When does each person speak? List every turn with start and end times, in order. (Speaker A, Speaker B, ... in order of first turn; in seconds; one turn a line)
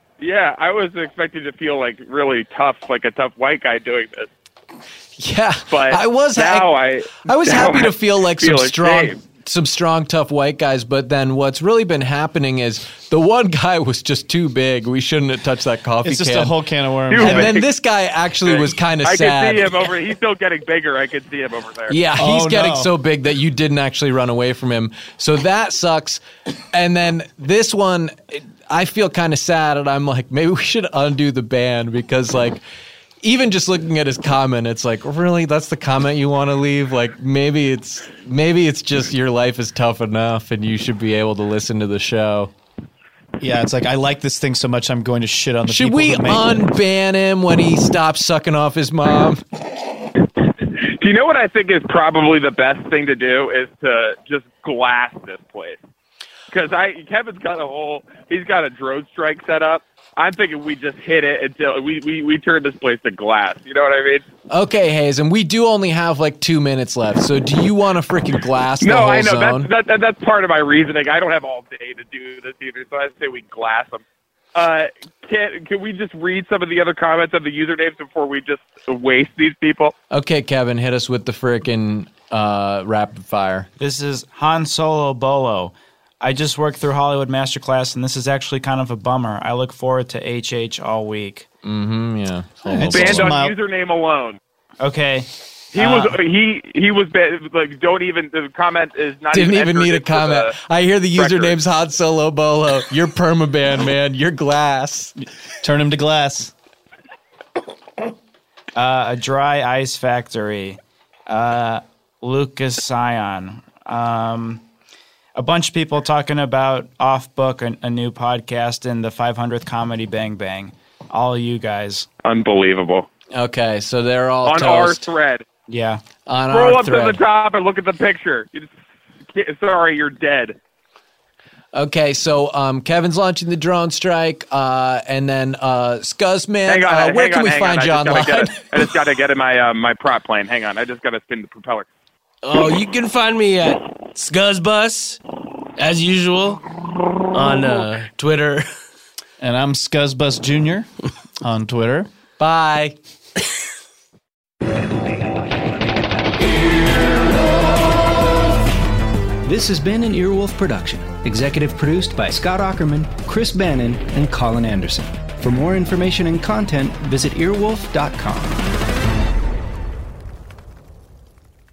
Speaker A: 0.2-4.3
Speaker B: 5.2-6.7
Speaker A: 5.7-9.2
Speaker B: 7.2-16.6
Speaker C: 16.0-17.5
Speaker A: 17.1-17.7
Speaker B: 17.2-19.9
Speaker A: 18.4-22.0
Speaker B: 21.9-32.6
Speaker C: 22.2-22.9
Speaker B: 33.2-42.5
Speaker C: 43.4-46.7
Speaker B: 45.7-49.4
Speaker A: 50.8-55.8
Speaker A: 56.5-64.2
Speaker B: 64.5-69.7
Speaker A: 68.8-74.0
Speaker A: 74.5-79.9
Speaker B: 80.1-83.7
Speaker D: 83.8-91.5
Speaker B: 91.6-93.3
Speaker C: 92.7-93.5
Speaker A: 92.9-94.4
Speaker D: 94.8-96.2
Speaker A: 95.7-100.6
Speaker B: 99.3-105.2
Speaker A: 101.2-101.6
Speaker C: 105.6-106.5
Speaker D: 108.8-114.6
Speaker D: 115.3-122.1
Speaker A: 122.2-123.1
Speaker B: 123.3-125.0
Speaker A: 124.5-125.5
Speaker D: 125.7-126.0
Speaker B: 126.3-127.2
Speaker A: 126.5-128.7
Speaker A: 129.3-130.6
Speaker B: 131.7-138.7
Speaker A: 136.7-141.9
Speaker E: 142.4-145.2
Speaker E: 145.8-146.6
Speaker E: 147.3-148.7
Speaker C: 149.4-150.9
Speaker C: 151.4-152.1
Speaker B: 152.4-153.0
Speaker F: 159.4-168.7